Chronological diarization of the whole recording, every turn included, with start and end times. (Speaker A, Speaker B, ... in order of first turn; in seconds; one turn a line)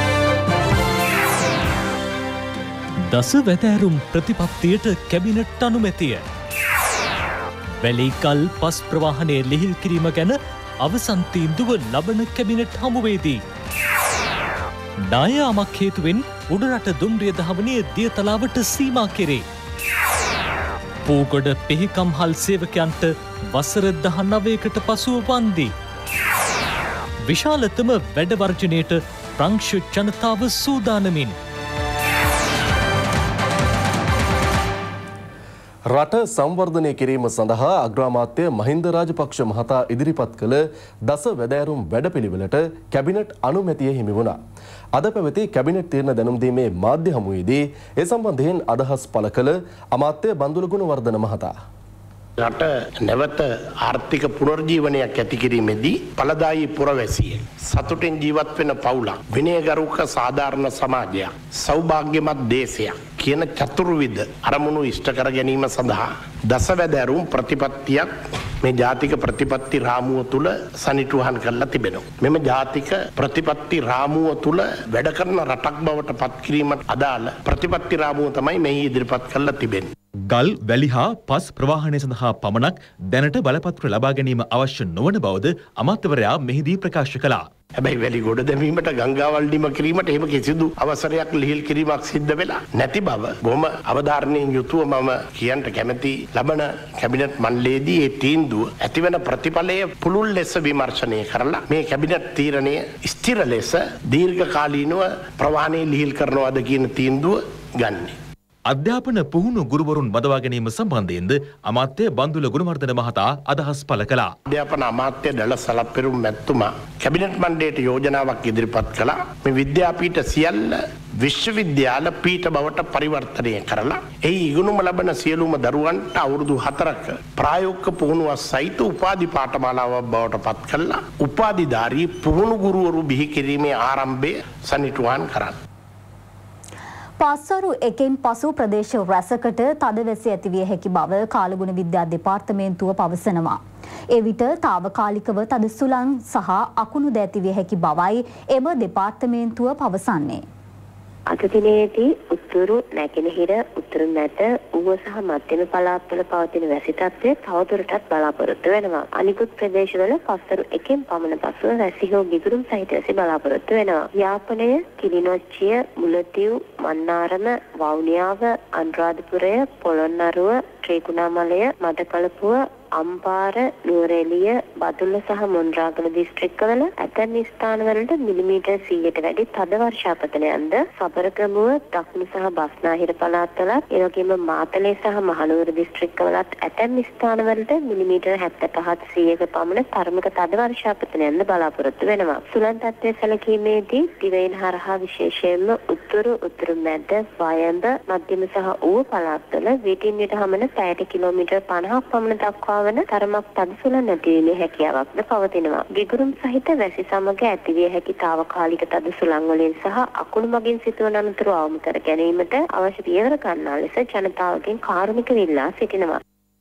Speaker A: 3.1-6.2
Speaker A: 7.8-13.4
Speaker A: 15.1-19.4
Speaker A: 21.1-25.7
Speaker A: 27.2-31.3
Speaker B: 35.9-44.4
Speaker B: 45.0-51.5
Speaker C: 52.4-68.1
Speaker C: 68.6-79.9
Speaker D: 80.3-87.5
Speaker C: 87.8-108.2
Speaker D: 108.7-114.3
Speaker C: 114.5-135.6
Speaker E: 137.2-143.6
Speaker E: 144.1-150.4
Speaker F: 151.3-216.2